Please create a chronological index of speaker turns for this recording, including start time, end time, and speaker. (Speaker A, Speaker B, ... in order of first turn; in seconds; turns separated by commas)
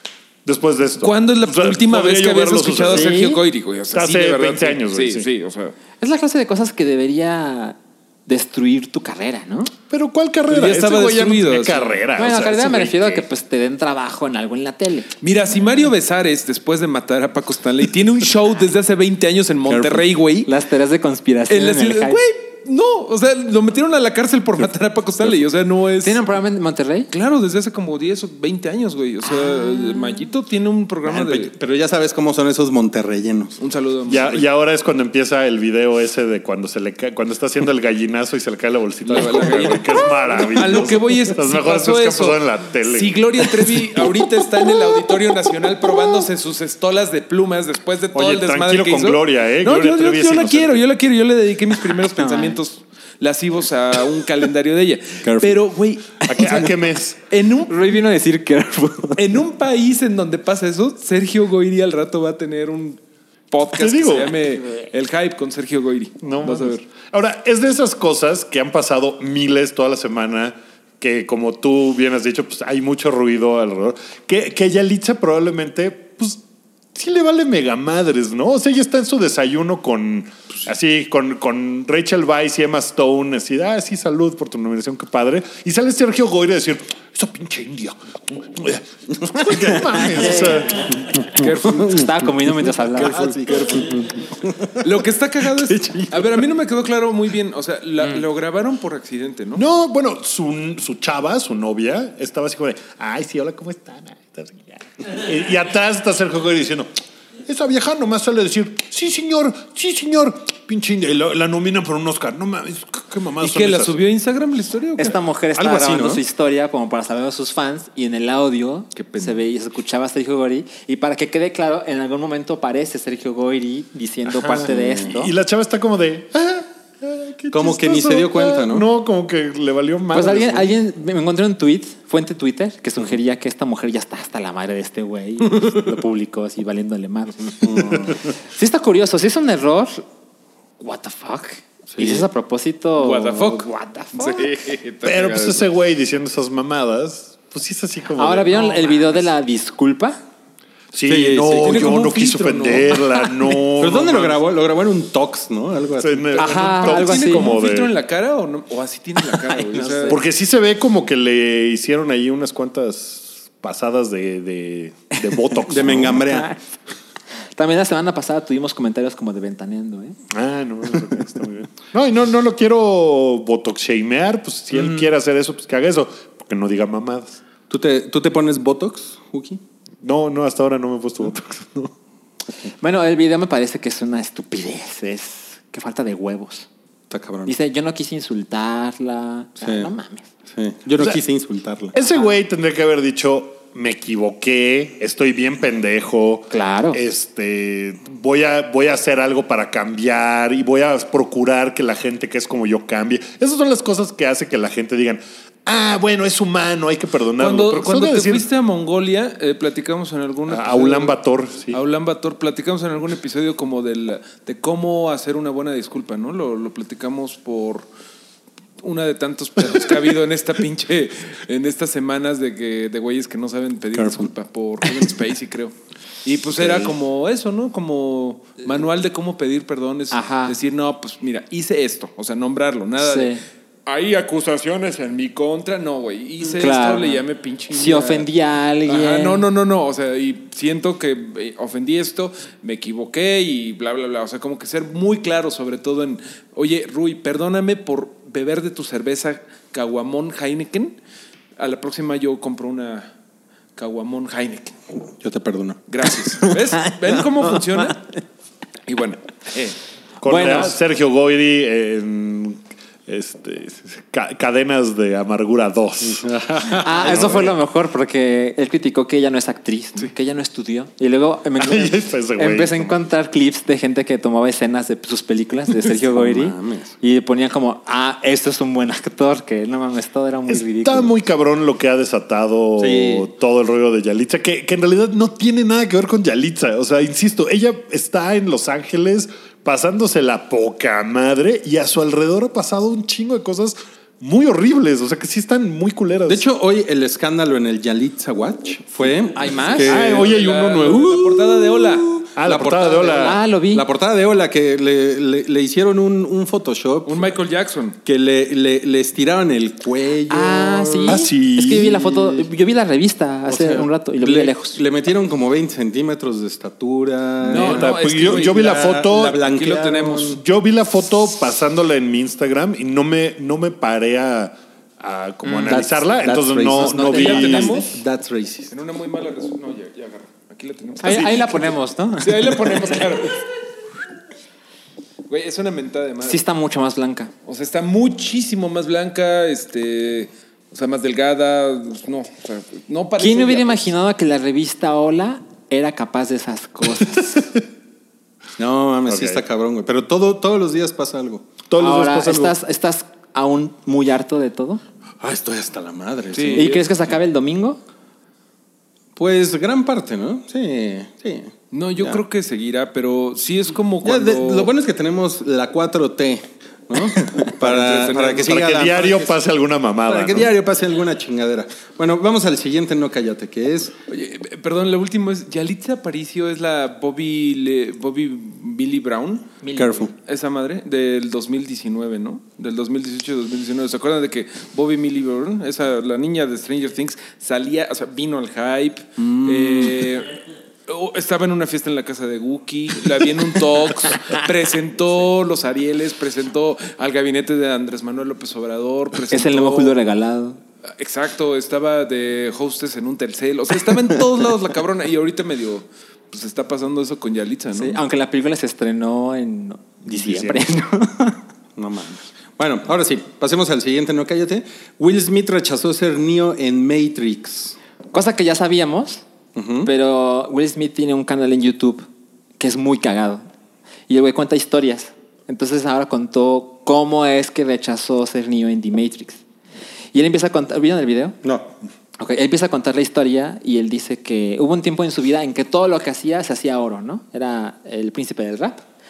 Speaker A: 0.5-3.2, Speaker B: 1.0-5.8, Speaker C: 2.9-3.4, Speaker A: 3.9-5.3, Speaker C: 6.0-9.7, Speaker A: 9.9-13.2, Speaker B: 10.5-12.0, Speaker C: 12.2-15.1, Speaker B: 15.2-20.5, Speaker D: 19.7-20.1, Speaker C: 20.5-22.2, Speaker B: 21.5-26.2, Speaker C: 26.0-27.1, Speaker B: 27.1-31.5, Speaker C: 29.2-30.2, Speaker D: 31.1-33.6, Speaker B: 33.6-34.5, Speaker A: 34.1-44.2, Speaker B: 39.1-56.7, Speaker A: 48.1-50.8, Speaker C: 52.1-52.6, Speaker D: 55.2-55.6, Speaker A: 56.3-57.2, Speaker B: 57.3-58.0, Speaker C: 57.7-59.4, Speaker B: 59.2-63.0, Speaker B: 63.5-66.8, Speaker A: 63.7-64.4, Speaker A: 66.2-76.4, Speaker A: 76.9-91.3, Speaker D: 89.4-89.9, Speaker C: 90.2-90.6, Speaker B: 91.3-92.0, Speaker D: 91.4-96.5, Speaker C: 91.7-93.2, Speaker B: 93.0-94.1, Speaker B: 94.8-99.6, Speaker A: 99.6-106.9, Speaker A: 107.5-114.0, Speaker B: 113.4-115.2, Speaker C: 115.0-125.3, Speaker D: 115.6-116.2, Speaker B: 119.0-119.4, Speaker D: 124.3-125.2, Speaker A: 125.1-130.7, Speaker D: 127.5-128.9, Speaker C: 130.1-140.0, Speaker D: 137.6-138.1, Speaker C: 140.8-144.5, Speaker D: 141.9-142.3, Speaker B: 143.0-145.7, Speaker A: 145.0-149.2, Speaker C: 148.2-150.2, Speaker A: 150.9-154.4, Speaker D: 151.1-152.1, Speaker B: 151.6-153.3, Speaker D: 153.8-156.4, Speaker A: 156.0-157.9, Speaker C: 156.4-157.6, Speaker B: 156.4-160.2, Speaker D: 159.5-160.2, Speaker A: 160.1-166.2, Speaker D: 165.7-166.5, Speaker C: 165.9-166.6, Speaker C: 167.6-170.2, Speaker A: 170.3-177.4, Speaker D: 177.7-179.6, Speaker A: 180.0-181.9, Speaker C: 182.8-186.7, Speaker D: 187.1-187.5, Speaker C: 187.5-190.3, Speaker D: 189.6-189.9, Speaker D: 190.5-192.0, Speaker A: 191.9-208.4, Speaker C: 196.5-197.0, Speaker B: 207.4-211.2, Speaker A: 210.5-211.8, Speaker B: 211.7-217.9, Speaker B: 218.8-225.7, Speaker D: 223.9-224.3, Speaker B: 226.2-233.3, Speaker A: 226.6-226.9, Speaker C: 230.1-230.6, Speaker C: 233.0-233.4, Speaker B: 233.9-238.3, Speaker C: 236.6-237.2, Speaker C: 237.7-239.4, Speaker B: 238.9-251.0, Speaker B: 251.6-253.1, Speaker B: 253.8-254.8, Speaker D: 255.2-256.7, Speaker B: 255.9-258.1, Speaker B: 258.9-259.8, Speaker A: 260.2-267.6, Speaker C: 260.2-260.8, Speaker D: 266.1-267.5, Speaker C: 266.7-281.1, Speaker A: 271.6-273.0, Speaker D: 275.9-276.9, Speaker A: 280.5-296.4, Speaker D: 282.8-283.3, Speaker D: 296.3-300.3, Speaker C: 299.3-300.0, Speaker A: 299.8-301.3, Speaker B: 299.9-302.2, Speaker D: 301.3-307.3, Speaker A: 302.2-303.4, Speaker C: 303.1-303.9, Speaker B: 307.1-308.0, Speaker D: 308.1-312.5, Speaker C: 310.3-314.8, Speaker A: 311.1-312.0, Speaker D: 313.5-320.4, Speaker B: 317.4-320.4, Speaker A: 317.5-319.4, Speaker A: 320.4-327.8, Speaker D: 325.6-328.7, Speaker C: 325.6-325.9, Speaker C: 326.8-327.9, Speaker B: 327.1-327.9, Speaker B: 328.7-333.4, Speaker C: 331.0-333.0, Speaker B: 335.3-336.4, Speaker C: 336.2-337.3, Speaker B: 337.5-343.9, Speaker C: 343.2-347.4, Speaker D: 348.6-351.5, Speaker A: 349.1-349.4, Speaker A: 351.7-352.6, Speaker C: 351.8-354.8, Speaker D: 355.2-356.8, Speaker B: 356.3-356.8, Speaker C: 356.6-357.8, Speaker D: 359.2-362.2, Speaker B: 361.7-364.7, Speaker D: 364.0-369.5, Speaker B: 367.6-368.6, Speaker A: 368.4-370.5, Speaker D: 370.1-374.0, Speaker B: 374.1-379.6, Speaker C: 379.6-380.1, Speaker D: 379.7-380.1, Speaker B: 380.1-400.0, Speaker D: 389.2-390.1, Speaker C: 399.3-400.6, Speaker B: 401.0-408.0, Speaker C: 407.7-411.4, Speaker A: 410.2-410.6, Speaker D: 411.8-417.8, Speaker C: 418.1-419.2, Speaker D: 419.6-419.9, Speaker C: 419.8-422.1, Speaker C: 422.6-423.4, Speaker C: 424.1-429.4, Speaker C: 430.1-431.4, Speaker D: 431.4-431.7, Speaker C: 432.2-438.8